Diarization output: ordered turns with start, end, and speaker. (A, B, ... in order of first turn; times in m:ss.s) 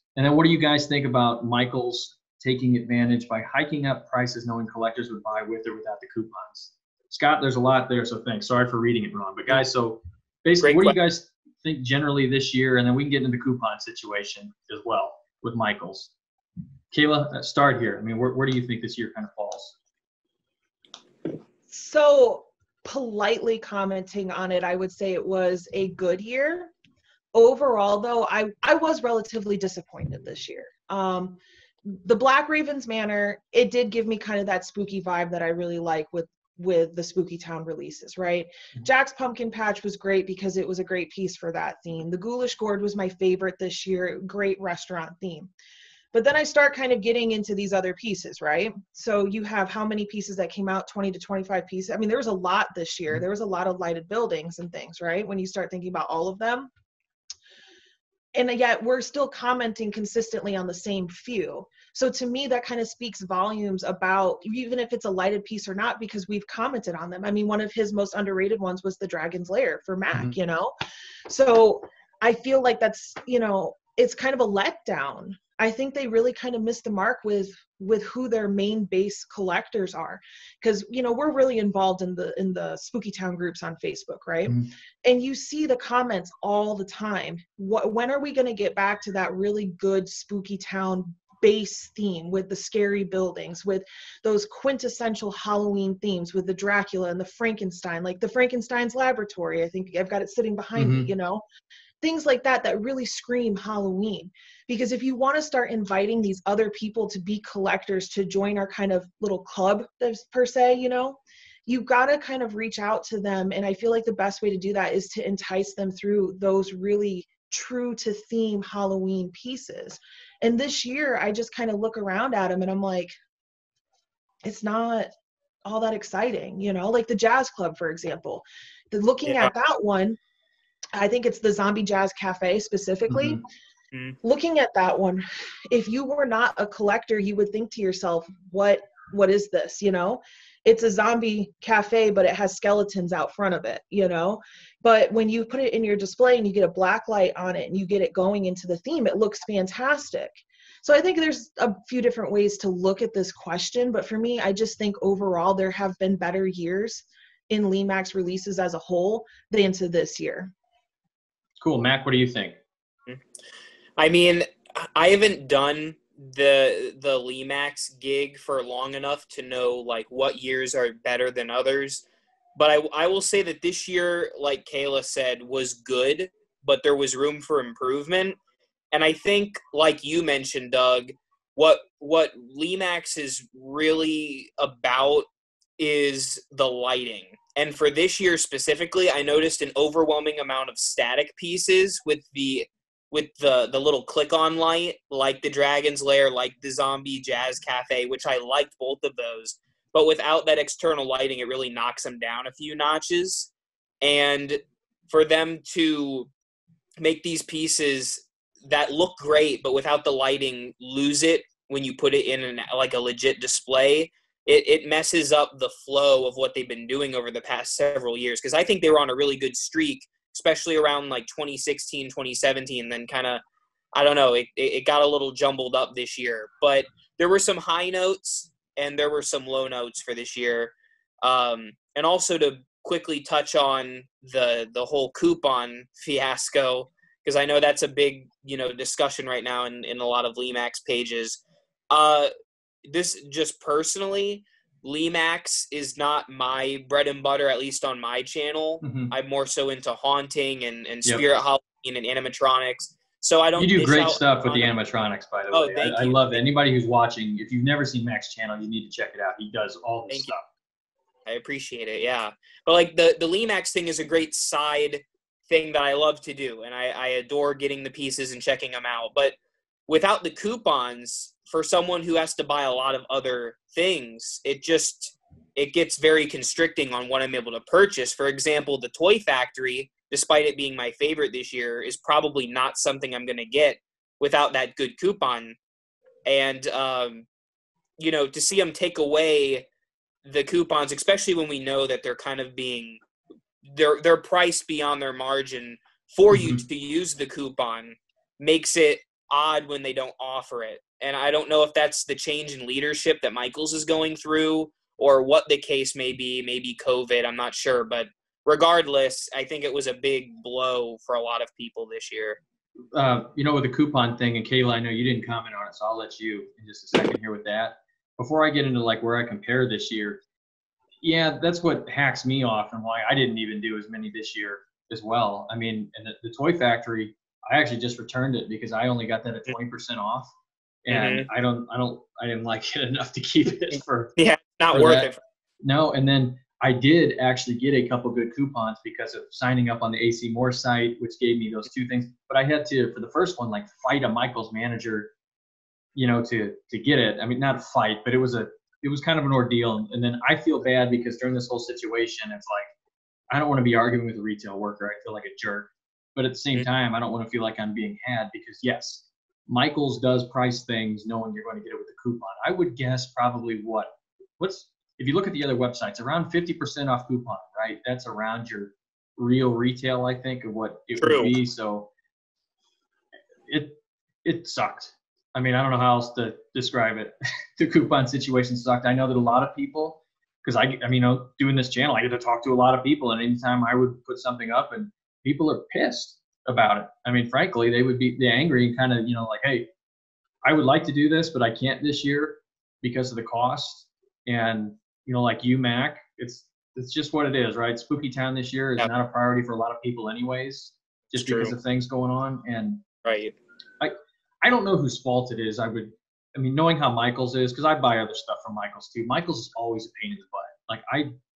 0:00.2-0:16.1 A
0:10.6-0:11.0 B
0:16.9-0:19.8 A
0:21.7-0:26.7 C
0:27.3-0:45.5 C
0:46.1-0:56.7 C
0:58.4-1:10.7 C
1:11.3-1:41.4 C
1:40.8-1:41.1 A
1:42.0-2:03.1 C
2:04.4-2:05.1 C
2:05.6-2:10.2 C
2:09.3-2:09.5 B
2:11.0-2:13.4 C
2:13.1-2:13.4 A
2:14.2-2:40.5 C
2:41.6-2:42.6 A
2:44.0-2:52.0 B
2:52.6-2:58.4 B
2:58.9-3:05.3 B
3:05.8-3:26.3 B
3:27.0-3:43.4 B
3:44.0-4:01.4 B
4:01.9-4:02.3 B
4:02.8-4:14.7 B
4:08.8-4:09.1 A
4:13.6-4:20.4 A
4:15.5-4:16.4 B
4:21.3-4:29.4 B
4:29.9-4:45.6 B
4:46.3-4:47.3 B
4:48.0-4:49.7 B
4:50.2-4:53.0 B
4:53.6-5:12.4 B
4:56.3-4:56.6 A
5:12.9-5:20.2 A
5:21.0-5:30.3 A
5:30.8-5:34.2 A
5:30.9-5:31.3 B
5:34.2-5:35.2 B
5:34.7-5:35.1 A
5:35.6-5:45.1 A
5:46.0-5:52.7 A
5:53.3-6:11.9 A
6:11.0-6:11.3 B
6:13.5-6:29.7 A
6:30.4-6:42.8 A
6:41.2-6:41.5 B
6:43.0-6:43.4 B
6:43.8-6:51.1 A